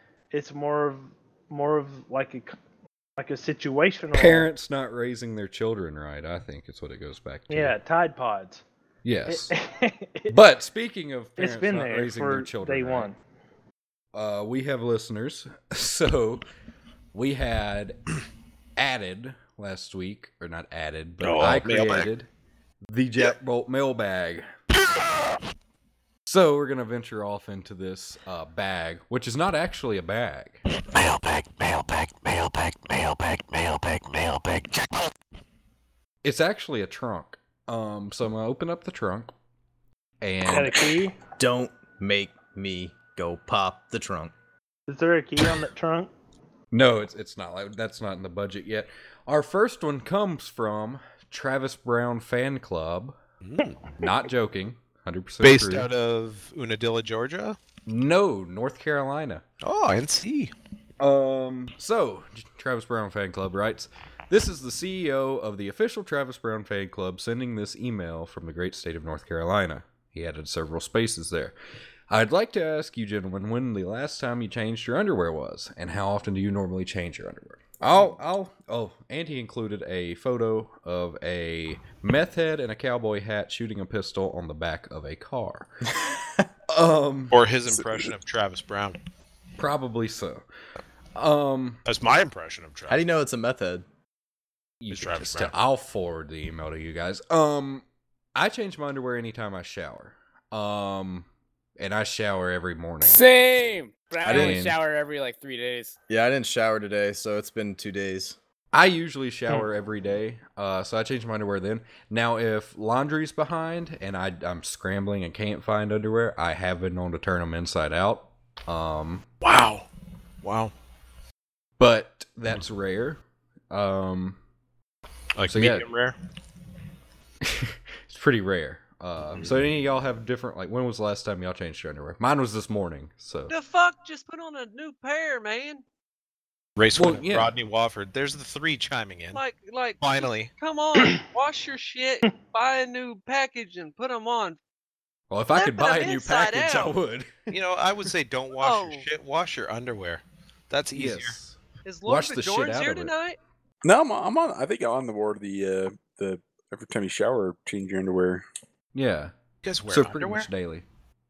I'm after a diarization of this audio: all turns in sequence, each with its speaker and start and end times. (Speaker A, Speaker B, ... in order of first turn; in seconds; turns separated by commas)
Speaker A: 0.3-2.5, Speaker A: 3.2-4.5, Speaker B: 4.1-7.8, Speaker A: 7.5-8.6, Speaker B: 9.0-9.6, Speaker A: 9.3-10.4, Speaker B: 10.3-13.1, Speaker A: 11.4-13.2, Speaker B: 14.1-16.4, Speaker B: 17.1-18.0, Speaker B: 18.8-22.3, Speaker C: 21.2-22.1, Speaker B: 22.9-24.5, Speaker B: 26.3-30.6, Speaker C: 30.8-35.0, Speaker B: 36.2-39.3, Speaker B: 40.2-40.8, Speaker A: 40.5-41.1, Speaker D: 41.4-44.3, Speaker A: 44.9-46.1, Speaker B: 46.7-53.2, Speaker C: 53.4-53.8, Speaker B: 54.0-55.9, Speaker C: 55.4-57.6, Speaker B: 57.9-59.4, Speaker C: 59.6-60.5, Speaker B: 61.0-71.6, Speaker B: 72.1-85.7, Speaker B: 86.7-87.4, Speaker C: 87.3-89.0, Speaker D: 87.7-88.0, Speaker B: 89.6-90.5, Speaker B: 91.2-91.8, Speaker C: 91.9-93.0, Speaker D: 92.9-93.8, Speaker B: 94.8-101.3, Speaker C: 94.9-95.5, Speaker B: 101.8-103.2, Speaker E: 103.0-106.0, Speaker D: 104.2-104.6, Speaker B: 104.2-104.8, Speaker D: 106.1-108.4, Speaker B: 108.7-119.2, Speaker C: 119.4-119.9, Speaker C: 120.4-120.7, Speaker B: 121.8-124.4, Speaker C: 125.4-126.2, Speaker B: 125.5-125.8, Speaker B: 127.4-133.5, Speaker F: 133.5-135.8, Speaker C: 136.8-139.4, Speaker B: 137.0-137.5, Speaker F: 139.3-144.6, Speaker C: 140.0-140.5, Speaker B: 145.3-147.5, Speaker F: 145.5-146.9, Speaker C: 147.5-151.4, Speaker F: 148.6-149.1, Speaker B: 150.9-153.1, Speaker F: 151.8-153.4, Speaker G: 153.8-158.4, Speaker B: 158.9-159.3, Speaker C: 159.6-160.5, Speaker B: 159.9-160.8